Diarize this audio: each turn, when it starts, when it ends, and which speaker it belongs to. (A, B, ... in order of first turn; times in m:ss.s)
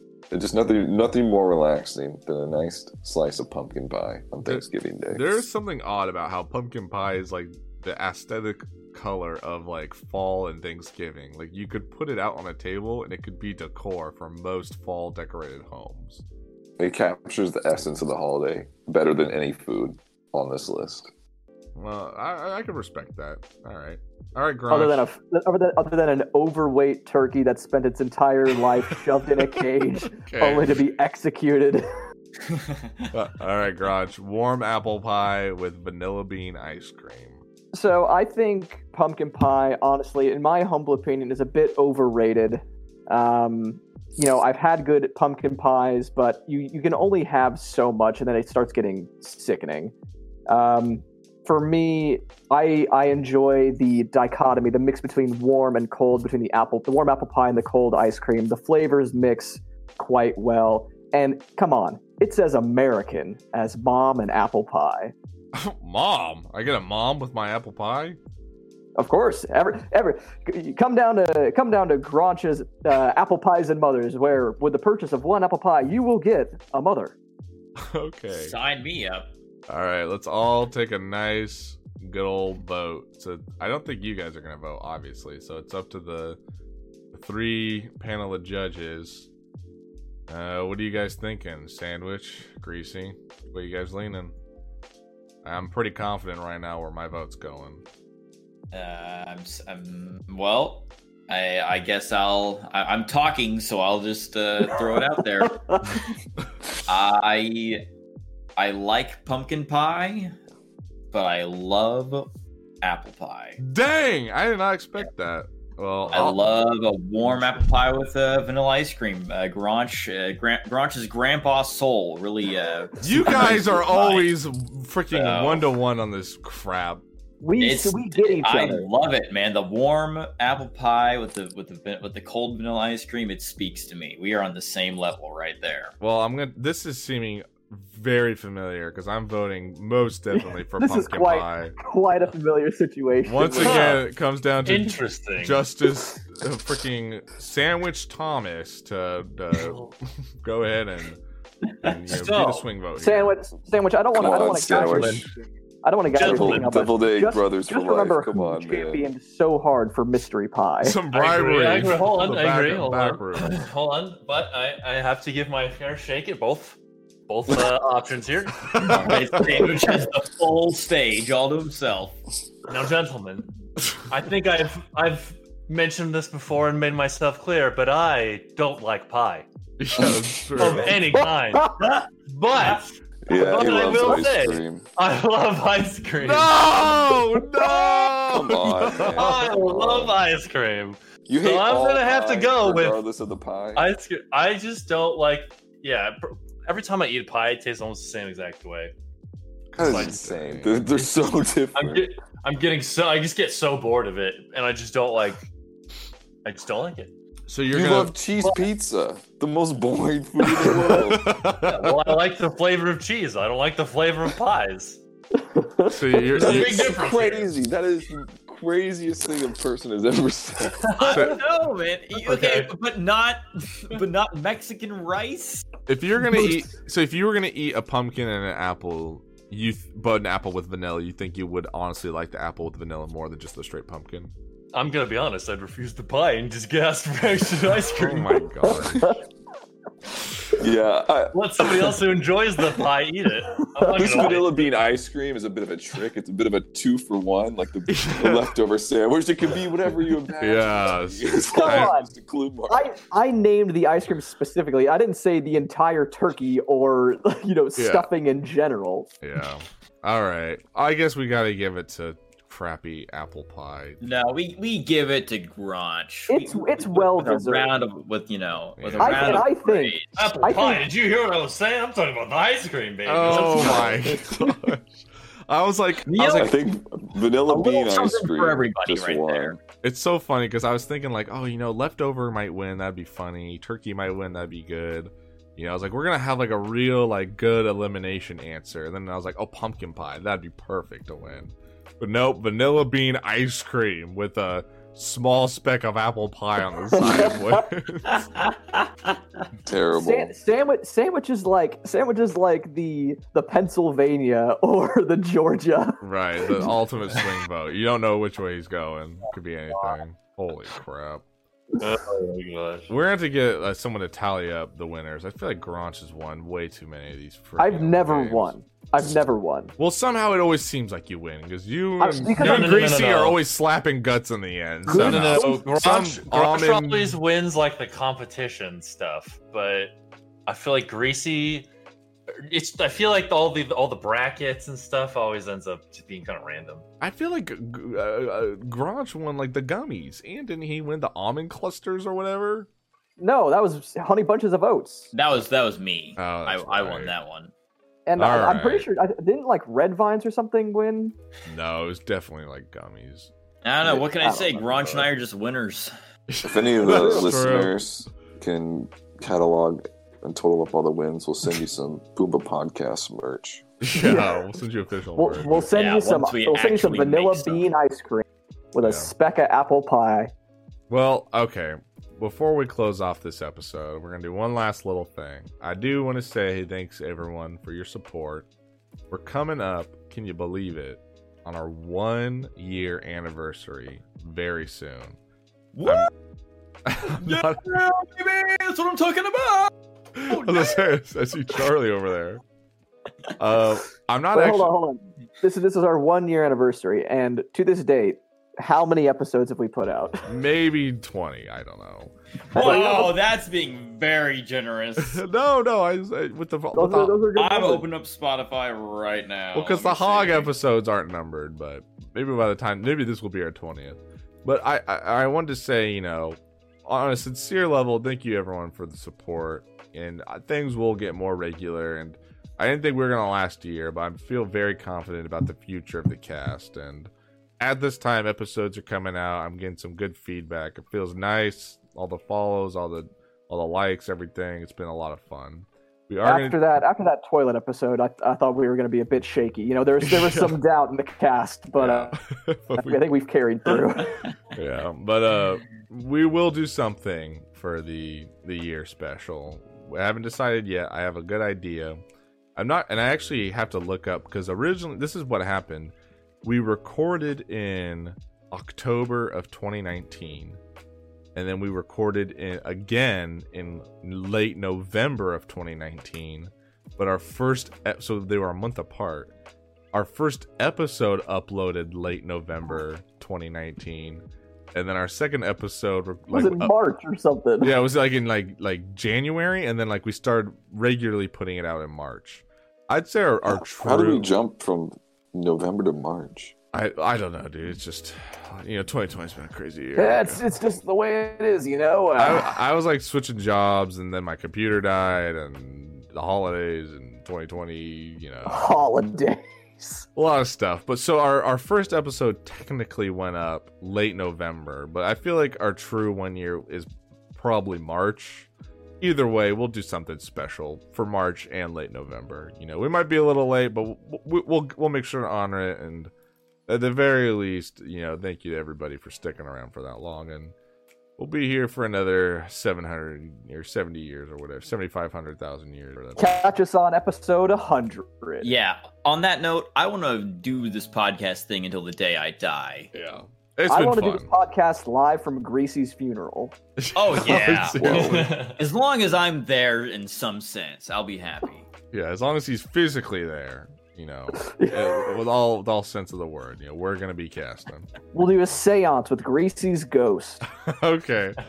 0:00.3-0:05.4 A
0:04.4-0:16.2 B
0:16.8-0:21.1 A
0:21.8-0:25.0 B
0:24.7-0:31.8 C
0:30.1-0:30.8 B
0:33.1-0:37.4 B
0:37.7-0:49.9 C
0:50.5-1:05.1 C
1:05.5-1:08.2 B
1:09.0-1:17.1 C
1:17.8-1:18.5 B
1:18.3-1:19.3 D
1:19.7-1:26.4 B
1:27.1-1:29.3 B
1:30.3-1:34.3 B
1:35.4-1:37.8 B
1:38.7-1:45.7 D
1:45.4-1:46.0 C
1:46.8-1:47.8 D
1:48.6-1:50.3 D
1:51.1-1:52.3 D
1:52.8-1:53.6 D
1:53.6-1:56.5 B
1:56.1-2:04.3 D
2:03.0-2:07.0 B
2:03.1-2:03.6 C
2:05.1-2:05.7 D
2:07.4-2:08.9 C
2:07.6-2:15.9 D
2:16.0-2:21.8 B
2:20.3-2:23.9 C
2:23.2-2:29.8 B
2:23.6-2:24.0 E
2:24.6-2:25.6 E
2:29.5-2:29.9 E
2:30.4-2:31.2 B
2:31.8-2:33.4 B
2:31.8-2:32.6 E
2:33.0-2:41.0 C
2:34.1-2:35.3 A
2:34.4-2:35.3 E
2:36.1-2:36.8 E
2:36.1-2:39.1 A
2:40.8-2:43.6 B
2:41.1-2:50.0 E
2:48.7-2:49.7 B
2:48.8-2:52.2 D
2:52.7-2:53.5 E
2:54.1-2:59.4 E
2:59.8-3:01.1 B
3:00.6-3:06.7 E
3:03.3-3:04.8 A
3:06.2-3:09.4 B
3:08.3-3:10.2 A
3:09.0-3:13.0 E
3:11.3-3:13.9 A
3:13.7-3:18.9 E
3:19.7-3:20.9 B
3:19.8-3:20.2 E
3:19.8-3:22.1 A
3:20.9-3:21.2 E
3:21.7-3:25.4 E
3:26.4-3:27.1 E
3:27.5-3:28.1 B
3:27.7-3:31.3 A
3:30.6-3:32.2 B
3:31.6-3:35.0 E
3:35.4-3:36.3 C
3:35.9-3:37.0 B
3:36.3-3:37.5 E
3:36.4-3:40.9 A
3:40.8-3:41.4 E
3:41.0-3:45.7 D
3:41.1-3:41.4 B
3:42.1-3:42.7 E
3:45.9-3:54.3 B
3:54.7-3:58.5 E
3:57.9-3:59.1 B
4:00.5-4:02.0 A
4:01.3-4:04.7 E
4:03.8-4:04.1 C
4:03.8-4:12.9 A
4:07.9-4:08.5 B
4:10.4-4:11.9 B
4:11.5-4:12.1 C
4:12.7-4:19.1 C
4:17.8-4:18.1 B
4:19.2-4:24.0 B
4:24.0-4:30.1 D
4:26.3-4:27.7 C
4:28.8-4:29.5 B
4:29.0-4:30.9 C
4:30.1-4:34.2 E
4:33.0-4:36.5 B
4:33.3-4:33.9 D
4:36.0-4:36.6 D
4:36.3-4:39.6 A
4:37.5-4:39.6 D
4:39.8-4:58.2 B
4:57.0-4:57.6 C
4:58.2-4:59.1 D
4:59.6-5:00.3 A
4:59.9-5:06.0 C
5:06.0-5:11.2 B
5:11.8-5:12.9 E
5:12.9-5:18.5 B
5:17.6-5:19.7 C
5:19.8-5:27.2 B
5:22.0-5:22.9 C
5:22.3-5:23.4 E
5:24.9-5:25.6 C
5:24.9-5:29.9 E
5:30.4-5:31.7 E
5:32.4-5:36.8 E
5:37.0-5:42.7 B
5:43.2-5:45.1 C
5:45.1-5:47.5 D
5:46.2-5:47.1 B
5:48.0-5:51.1 C
5:48.2-5:48.9 B
5:51.4-5:53.3 B
5:53.6-5:55.9 D
5:53.8-5:55.1 C
5:56.3-5:57.8 B
5:56.4-6:03.6 A
6:03.8-6:05.7 B
6:03.9-6:04.4 C
6:05.2-6:10.3 C
6:05.7-6:07.6 D
6:08.8-6:09.1 B
6:10.9-6:18.5 B
6:19.1-6:25.2 B
6:25.7-6:26.1 D
6:25.8-6:26.1 B
6:26.8-6:27.6 B
6:27.2-6:29.7 D
6:30.1-6:32.4 B
6:30.3-6:30.8 D
6:33.4-6:34.7 B
6:34.3-6:40.3 C
6:40.3-6:42.1 B
6:42.5-6:43.2 C
6:42.5-6:45.2 D
6:45.0-6:47.2 B
6:46.7-6:47.8 C
6:47.3-6:50.5 D
6:49.5-7:16.6 B
7:16.2-7:22.2 C
7:20.0-7:20.6 B
7:21.8-7:23.0 B
7:22.8-7:24.3 C
7:24.5-7:32.0 B
7:32.6-7:40.6 B
7:41.3-7:49.3 B
7:49.9-7:54.2 B
7:54.7-7:56.7 B
7:56.3-7:57.8 C
7:57.6-8:04.3 B
8:03.5-8:06.5 A
8:06.7-8:10.4 B
8:10.0-8:12.5 C
8:12.2-8:18.7 B
8:18.4-8:20.0 C
8:20.2-8:28.5 B
8:29.0-8:36.1 B
8:36.7-8:40.5 B
8:41.2-8:46.4 B
8:46.2-8:48.5 C
8:48.4-8:52.9 D
8:52.9-8:54.3 B
8:53.7-8:56.5 C
8:56.8-8:58.3 B
8:56.9-9:01.7 D
8:57.8-8:58.6 E
9:01.9-9:07.9 B
9:04.4-9:04.9 C
9:08.1-9:10.4 C
9:10.6-9:11.4 B